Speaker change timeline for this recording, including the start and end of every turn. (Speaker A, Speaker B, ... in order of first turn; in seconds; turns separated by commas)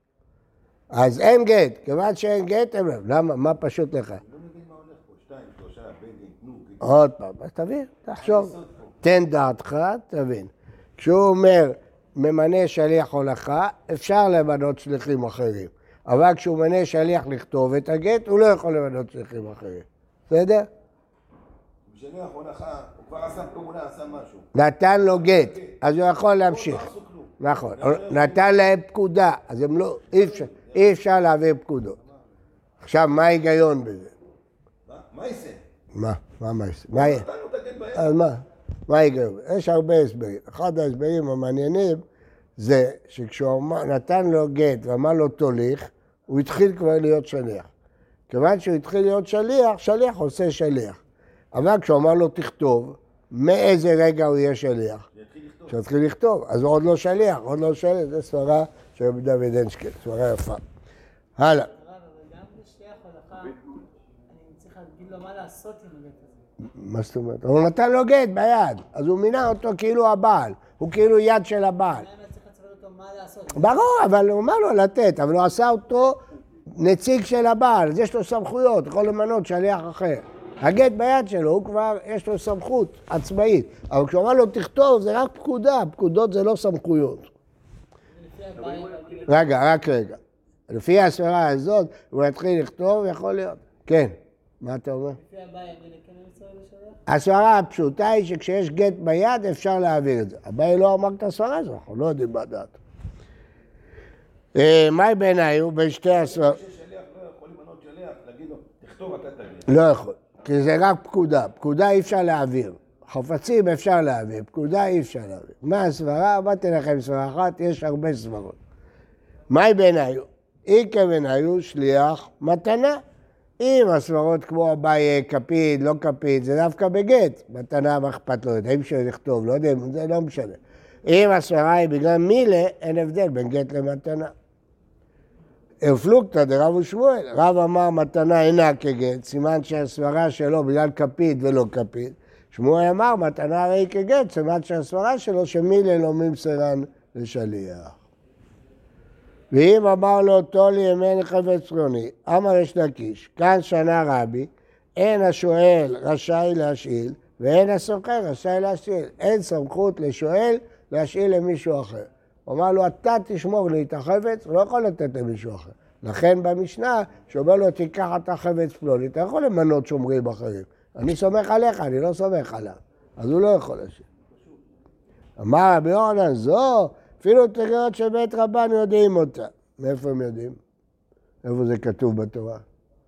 Speaker A: 0.9-4.2, Speaker B: 4.2-6.9, Speaker A: 6.8-20.7, Speaker B: 8.2-9.0, Speaker B: 21.9-24.5, Speaker A: 24.6-26.9, Speaker B: 25.0-28.7, Speaker A: 27.4-32.0, Speaker B: 30.1-31.1, Speaker B: 32.0-32.2, Speaker A: 32.8-34.1, Speaker B: 34.9-35.6, Speaker A: 35.9-37.2, Speaker B: 36.9-38.2, Speaker A: 38.0-42.0, Speaker A: 42.6-47.7, Speaker A: 48.3-51.0, Speaker A: 51.5-55.1, Speaker B: 55.1-55.8, Speaker A: 55.7-60.6, Speaker A: 61.4-61.7, Speaker C: 61.5-63.6, Speaker C: 64.3-66.5, Speaker A: 66.7-72.0, Speaker C: 71.9-74.0, Speaker A: 73.6-76.2, Speaker A: 76.8-87.3, Speaker C: 88.1-89.4, Speaker A: 89.3-90.2, Speaker A: 90.7-95.2, Speaker C: 95.2-97.0, Speaker A: 97.1-102.8, Speaker A: 104.5-106.6, Speaker B: 106.1-109.8, Speaker A: 109.7-118.6, Speaker A: 119.5-123.0, Speaker A: 123.6-134.3, Speaker A: 135.8-148.0, Speaker A: 149.5-174.0, Speaker B: 174.3-174.6, Speaker A: 175.4-180.6, Speaker A: 181.4-182.6